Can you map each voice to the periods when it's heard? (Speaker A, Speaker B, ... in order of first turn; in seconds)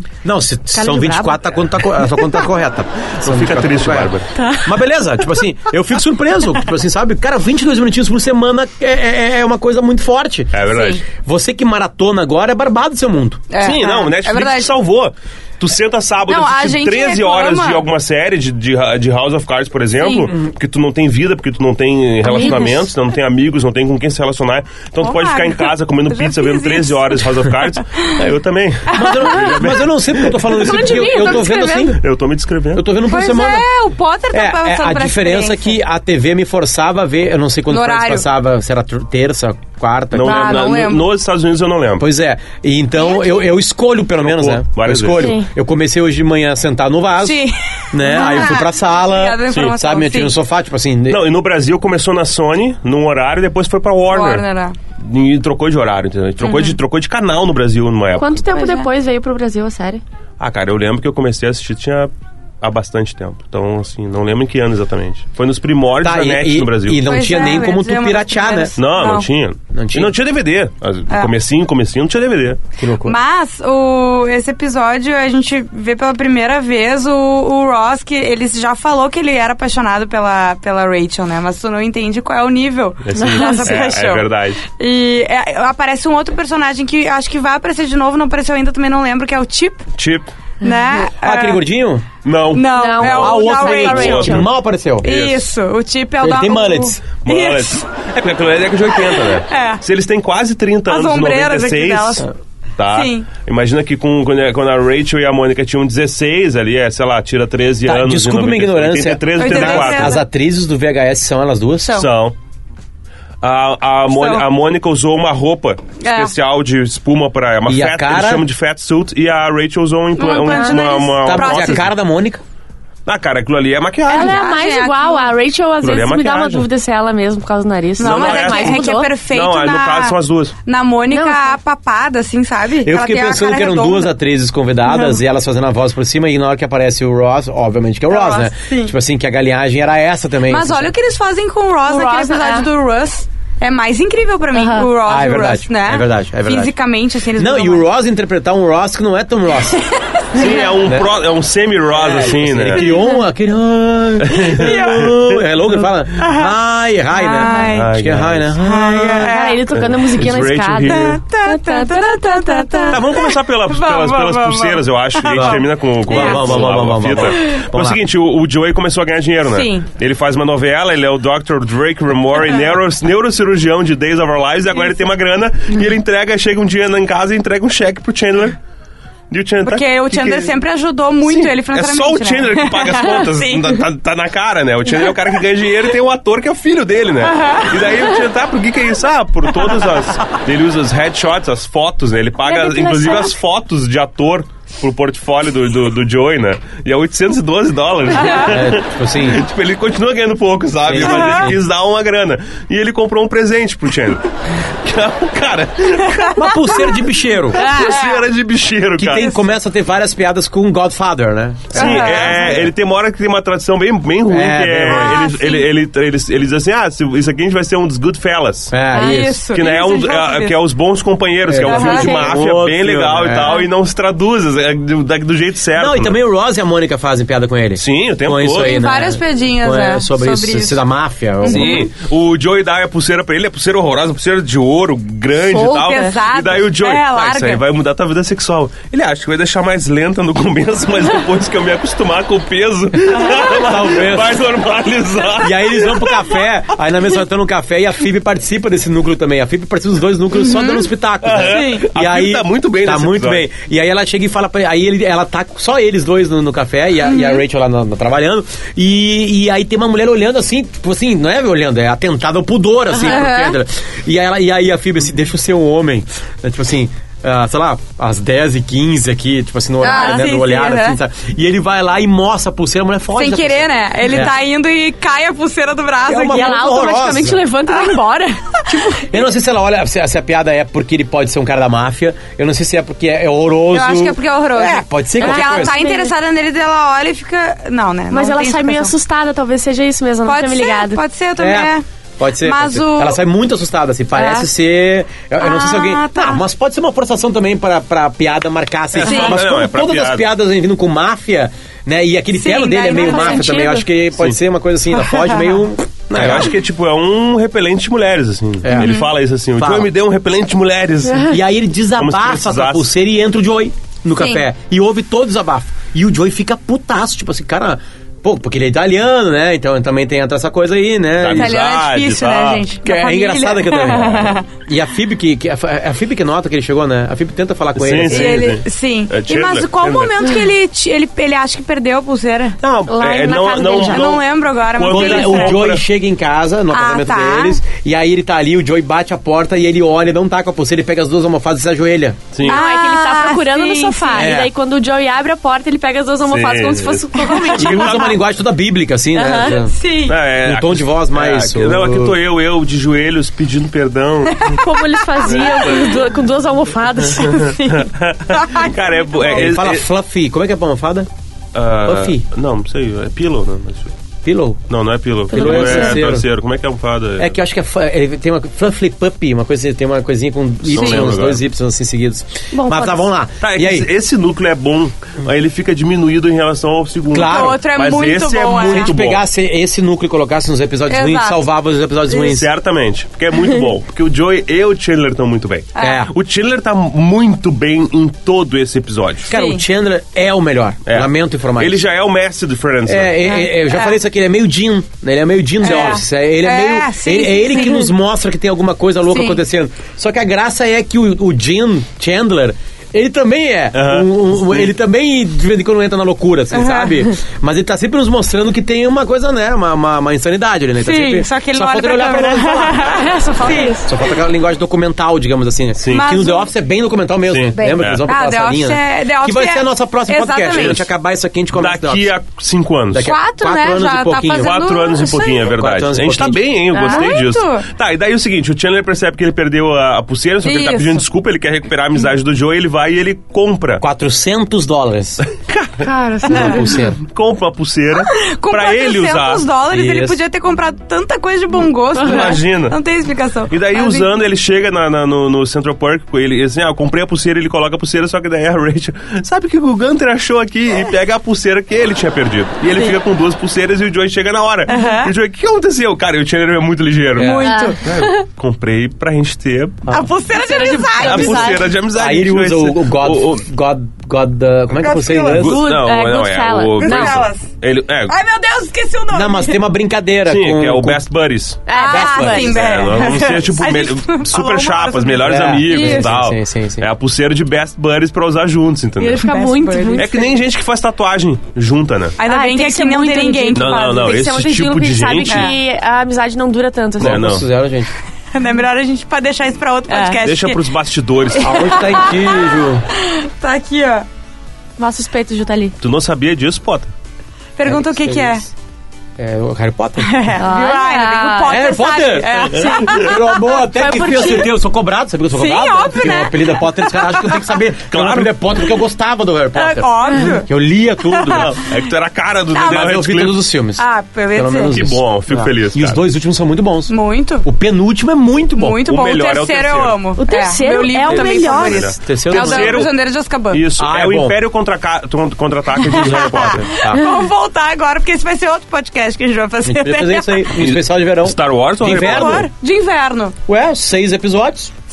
Speaker A: 0.2-13.5, 28.9-32.0, 32.7-33.7, 34.3-40.7, 42.0-51.3, 66.0-68.7, 69.7-70.2, 72.8-73.2, 91.2-92.1, 93.0-95.1, 96.2-97.0, 107.8-112.1, 117.7-118.5, 121.2-122.4, 132.8-140.9, 145.0-146.7, 147.3-149.9, 150.5-151.1, 151.9-159.4, 165.3-168.0, 198.3-199.4, 200.8-201.6, 206.3-207.7, 209.0-212.6, 214.3-215.2, 218.7-219.4, 221.5-223.6, 225.8-231.9, 243.1-244.4, 245.4-274.3, 276.1-277.4, 278.7-285.8, 291.4-306.6, 308.6-308.9, 309.6-309.9, 311.3-321.6, 322.8-328.6, 332.6-333.0, 334.9-342.3, 344.1-344.5, 347.2-349.7, 350.4-352.2, 359.3-361.1, 361.9-362.2, 364.2-364.6, 365.3-366.3, 367.2-373.9, 377.1-377.6, 378.6-382.5, 385.8-386.1, 389.3-391.8, 392.9-412.9, 413.8-422.1, 422.9-424.6, 425.4-426.4, 433.8-435.2, 436.3-437.0, 439.7-440.2, 457.2-457.5, 461.9-465.6, 469.1-471.0, 471.9-472.6, 475.2-476.9, 487.0-487.9, 491.4-492.9, 497.6-498.5, 499.2-500.1, 501.5-511.5, 512.6-518.8, 522.0-522.9, 523.8-524.4, 526.0-527.0, 529.6-532.5, 533.5-534.7
Speaker B: 0.7-1.5, 2.1-2.4, 4.4-4.7, 22.2-22.8, 30.5-32.0, 45.1-45.5, 58.2-60.0, 83.2-83.8, 92.7-94.5, 120.5-120.8, 124.1-129.1, 131.1-131.6, 141.9-142.7, 144.5-144.9, 159.2-163.0, 192.4-193.3, 221.8-222.3, 235.6-236.1, 276.1-278.4, 285.2-286.1, 288.1-291.0, 294.2-294.5, 302.9-303.9, 311.1-311.3, 332.9-334.1, 342.4-348.1, 349.1-349.6, 354.5-357.6, 365.3-366.0, 372.5-373.1, 412.9-413.9, 426.7-427.1, 435.8-436.8, 457.4-458.2, 460.3-461.7, 465.4-467.2, 471.7-472.6, 479.0-480.3, 482.2-487.3, 489.9-490.2, 494.8-495.8, 500.4-501.6, 502.5-504.6, 520.2-521.9
Speaker C: 3.2-4.3, 10.5-11.1, 13.6-32.9, 40.1-42.0, 44.2-45.4, 51.1-54.5, 55.0-58.4, 60.4-67.1, 68.8-72.6, 83.0-84.6, 90.0-90.3, 92.2-94.5, 95.0-95.4, 97.2-110.2, 111.9-112.3, 113.4-121.9, 123.1-124.4, 125.8-126.7, 128.0-130.6, 150.3-153.0, 154.2-155.4, 157.7-158.5, 159.7-161.2, 162.9-178.6, 179.3-180.6, 181.3-206.8, 207.5-209.3, 211.7-218.8, 219.5-226.2, 227.8-228.8, 231.5-246.5, 251.2-253.5, 299.0-300.3, 306.1-311.4, 312.0-312.9, 321.2-322.7, 327.8-330.1, 332.9-335.8, 342.3-342.6, 346.2-348.2, 350.1-354.6, 355.2-356.1, 357.2-359.9, 361.6-363.9, 364.7-367.4, 370.7-371.4, 373.4-379.2, 382.1-389.3, 390.9-393.3, 403.7-404.6, 415.8-416.1, 417.3-418.1, 420.5-420.8, 421.5-423.1, 424.3-433.8, 435.5-435.9, 437.0-439.5, 442.0-442.8, 443.5-459.9, 461.0-463.4, 465.3-468.1, 470.3-471.6, 472.3-479.3, 480.0-482.2, 483.6-485.5, 487.0-487.5, 490.2-491.7, 495.8-496.9, 502.6-502.9, 507.9-508.6, 511.2-513.5, 514.7-516.0, 518.9-520.0, 521.0-523.0, 523.5-526.7, 530.6-532.5
Speaker D: 10.7-11.0, 13.5-14.7, 16.3-17.8, 25.0-27.3, 33.1-35.8, 37.7-38.2, 40.2-41.1, 43.0-43.4, 47.2-50.3, 54.1-54.8, 56.4-56.8, 58.5-58.9, 67.0-69.3, 73.0-89.8, 90.6-91.6, 92.5-94.4, 95.0-97.8, 99.2-99.8, 100.9-102.3, 102.9-103.3, 109.3-110.2, 114.1-114.5, 116.0-116.3, 120.2-121.9, 124.1-125.3, 128.0-134.1, 138.1-138.9, 140.5-147.9, 150.2-150.7, 154.4-155.2, 156.2-156.5, 157.1-157.9, 158.6-159.6, 160.8-166.7, 169.5-169.9, 179.6-183.8, 187.2-187.9, 201.0-201.5, 207.5-208.2, 209.2-209.4, 211.7-212.6, 214.9-215.7, 218.9-220.6, 221.6-222.2, 228.6-230.8, 231.4-231.9, 235.5-237.6, 250.4-250.9, 251.4-251.9, 257.1-257.4, 262.9-263.6, 269.8-271.0, 273.2-276.7, 277.7-278.0, 283.7-288.9, 290.2-291.9, 292.4-293.2, 295.4-296.4, 299.1-299.4, 302.4-303.5, 305.1-305.6, 308.7-309.1, 314.2-314.4, 321.3-324.5, 328.1-332.6, 333.5-335.6, 336.7-337.6, 342.5-344.3, 349.7-350.2, 354.3-354.8, 357.2-359.5, 370.8-371.1, 377.2-378.9, 380.9-381.4, 385.8-386.1, 389.3-389.6, 393.5-393.9, 395.6-397.9, 399.1-399.4, 406.5-407.0, 410.8-413.8, 415.9-416.5, 417.6-420.8, 423.0-425.5, 426.8-427.7, 430.4-431.0, 438.0-444.1, 454.7-455.1, 457.2-457.8, 459.9-461.6, 464.8-465.5, 466.8-467.5, 468.1-469.6, 471.7-476.1, 479.2-480.2, 482.2-484.4, 485.3-485.6, 488.3-490.6, 491.5-494.1, 497.6-498.4, 500.0-503.4, 504.0-504.5, 505.3-507.4, 509.6-511.7, 512.5-513.0, 513.8-514.8, 516.9-517.5, 518.6-523.7, 525.8-530.5, 531.8-533.4